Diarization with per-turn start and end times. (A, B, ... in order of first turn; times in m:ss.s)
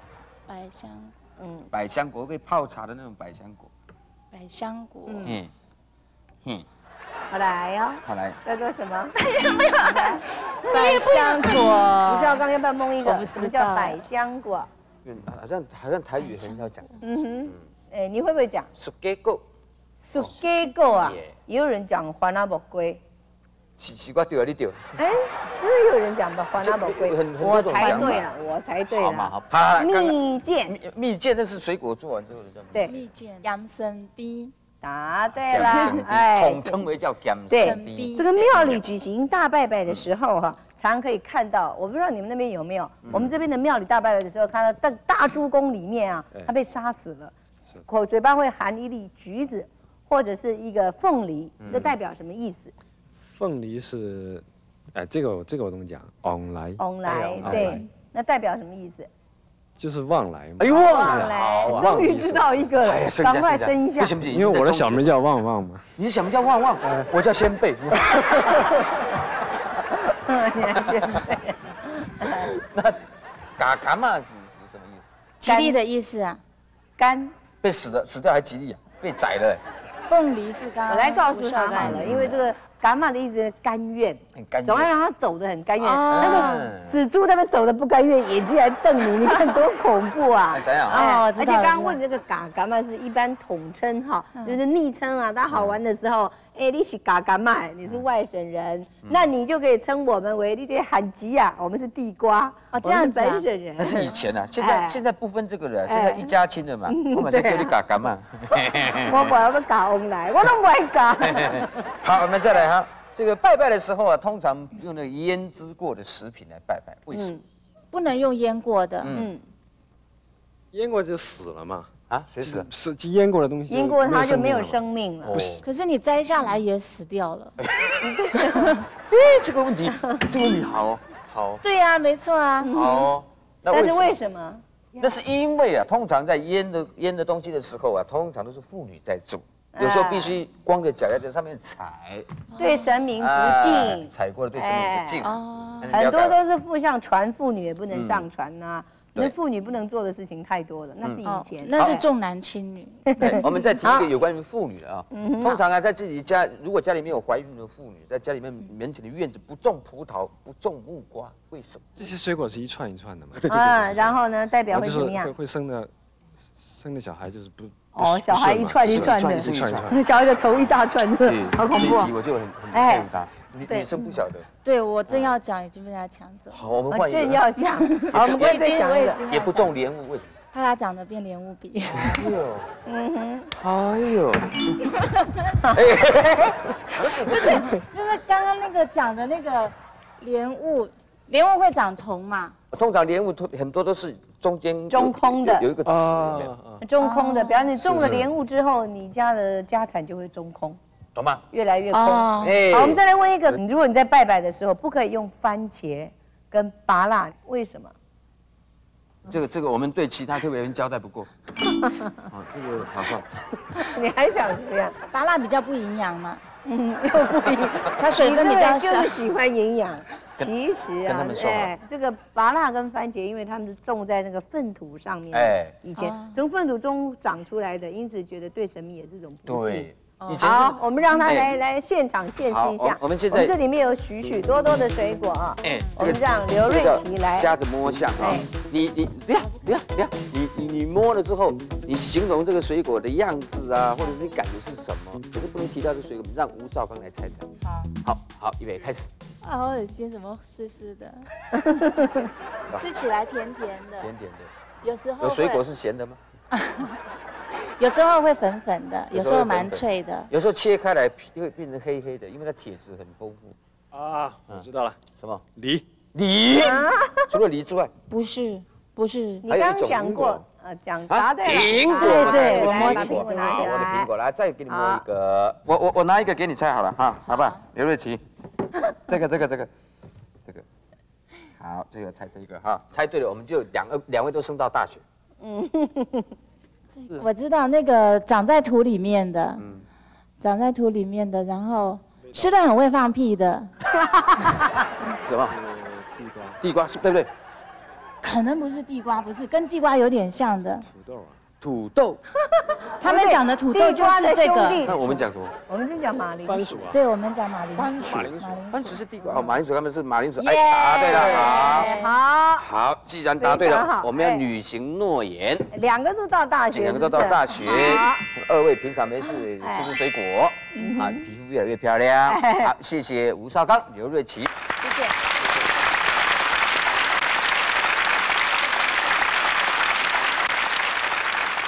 0:00.5-0:01.1 A
0:01.4-0:01.7 B
0:01.7-0:03.7 C
0:04.3-0:05.3 A
0:05.0-0:05.4 B
0:05.2-0:05.5 C
0:07.3-0:09.2 B
0:08.0-0:08.4 C
0:09.3-0:10.1 A
0:09.7-0:14.7 B
0:10.6-0:12.4 A
0:13.0-0:14.0 A
0:15.0-0:17.0 C
0:16.3-0:16.6 A
0:17.0-0:18.7 B
0:18.7-0:19.4 C
0:20.0-0:23.0 B
0:21.0-0:21.3 C
0:23.8-0:24.8 C
0:25.0-0:30.7 B
0:26.6-0:28.3 C
0:27.8-0:28.1 A
0:28.9-0:33.0 C
0:32.7-0:33.0 B
0:32.8-0:34.5 A
0:34.8-0:36.8 B
0:35.3-0:38.8 C
0:35.6-0:35.9 A
0:37.5-0:47.3 B
0:37.6-0:38.3 A
0:43.0-0:43.3 C
0:47.9-0:52.7 B
0:51.6-0:51.9 C
0:53.2-0:57.8 D
0:56.8-0:59.1 B
0:57.3-0:57.8 C
0:59.8-1:02.8 D
1:00.6-1:02.0 C
1:00.8-1:04.1 B
1:02.8-1:05.1 C
1:04.2-1:06.0 D
1:06.0-1:08.8 C
1:06.8-1:07.1 D
1:10.0-1:12.5 B
1:12.2-1:15.0 C
1:15.4-1:16.4 A
1:15.4-1:15.8 B
1:17.0-1:17.3 B
1:17.6-1:19.6 C
1:20.0-1:22.3 A
1:20.9-1:45.0 B
1:21.8-1:22.4 C
1:24.4-1:24.9 C
1:25.8-1:26.7 A
1:26.1-1:26.9 C
1:30.5-1:31.0 C
1:30.9-1:32.0 A
1:35.5-1:35.8 C
1:42.7-1:43.4 A
1:43.8-1:49.4 C
1:45.9-1:46.3 B
1:46.9-1:47.7 B
1:49.0-1:51.8 B
1:51.2-1:57.3 C
1:57.1-1:57.4 B
1:57.9-1:59.1 A
1:59.0-1:59.3 C
1:59.1-1:59.4 B
2:00.7-2:05.6 D
2:02.1-2:02.7 C
2:03.7-2:05.4 B
2:05.2-2:05.6 C
2:05.6-2:07.5 A
2:07.6-2:08.1 C
2:08.0-2:08.8 B
2:09.1-2:11.6 C
2:11.6-2:12.8 A
2:12.6-2:13.1 B
2:12.7-2:14.2 C
2:13.7-2:15.2 B
2:15.0-2:22.3 C
2:19.7-2:20.4 B
2:22.6-2:22.9 A
2:22.6-2:25.3 B
2:23.2-2:26.4 C
2:25.2-2:26.0 A
2:25.9-2:32.0 B
2:27.9-2:28.3 C
2:31.2-2:33.6 A
2:33.2-2:42.1 C
2:33.3-2:34.1 B
2:35.1-2:35.6 B
2:42.0-2:44.0 D
2:43.4-2:44.0 C
2:43.5-2:45.3 B
2:44.7-2:50.0 D
2:47.9-2:52.1 B
2:48.8-2:49.9 C
2:51.2-2:54.5 C
2:52.7-2:53.1 B
2:54.5-2:56.5 A
2:55.1-2:55.3 C
2:56.5-2:57.4 C
2:56.9-2:59.2 B
2:57.8-2:59.7 A
2:58.1-2:58.6 C
2:59.3-3:00.4 C
3:00.5-3:02.3 A
3:01.9-3:02.7 C
3:02.8-3:03.5 B
3:03.6-3:05.1 C
3:05.7-3:07.8 C
3:07.7-3:12.5 A
3:12.7-3:16.5 C
3:14.9-3:15.7 B
3:15.8-3:16.8 D
3:16.8-3:20.8 B
3:17.0-3:17.7 A
3:17.8-3:18.3 C
3:21.1-3:21.4 C
3:21.5-3:27.9 B
3:21.9-3:22.6 A
3:22.4-3:23.0 C
3:29.2-3:31.3 C
3:31.8-3:32.1 B
3:32.3-3:33.6 C
3:33.9-3:34.9 B
3:35.1-3:36.4 A
3:36.6-3:49.9 B
3:38.0-3:39.2 A
3:41.0-3:41.7 C
3:45.3-3:45.7 C
3:46.0-3:46.4 A
3:49.5-3:51.5 C
3:50.4-3:57.5 B
3:52.5-3:53.5 C
3:55.6-4:07.5 C
3:58.2-3:58.5 B
4:08.0-4:09.1 C
4:09.4-4:12.0 A
4:12.7-4:14.1 A
4:12.7-4:13.0 C
4:14.0-4:14.5 C
4:14.8-4:15.6 A
4:15.2-4:16.2 C
4:16.5-4:17.0 A
4:17.8-4:20.3 A
4:19.1-4:23.6 C
4:23.9-4:25.0 D
4:25.2-4:25.4 C
4:25.5-4:25.8 D
4:26.1-4:27.9 C
4:26.6-4:27.3 B
4:28.1-4:29.4 A
4:29.4-4:34.1 B
4:29.5-4:30.4 C
4:31.1-4:38.2 C
4:31.6-4:33.9 A
4:34.7-4:35.0 B
4:37.3-4:37.6 A
4:39.1-4:39.7 C
4:41.6-4:45.0 C
4:45.4-4:46.3 B
4:47.0-4:49.6 A
4:49.6-4:49.8 C
4:50.4-4:53.7 A
4:52.2-4:52.5 D
4:54.0-4:54.7 B
4:55.2-4:55.5 C
4:55.3-4:56.6 D
4:56.6-4:57.3 C
4:58.2-5:00.9 A
5:00.8-5:01.4 D
5:01.6-5:02.2 C
5:02.7-5:06.8 B
5:03.0-5:04.8 A
5:04.8-5:05.5 C
5:06.4-5:07.0 D
5:06.9-5:09.0 A
5:07.8-5:11.9 C
5:08.0-5:08.7 D
5:10.4-5:12.1 A
5:10.9-5:12.7 B
5:12.6-5:15.7 C
5:13.4-5:14.4 B
5:15.7-5:18.2 B
5:16.7-5:24.5 C
5:17.7-5:18.1 A
5:19.6-5:19.9 B
5:20.7-5:21.2 B
5:22.3-5:22.7 B
5:24.8-5:25.2 A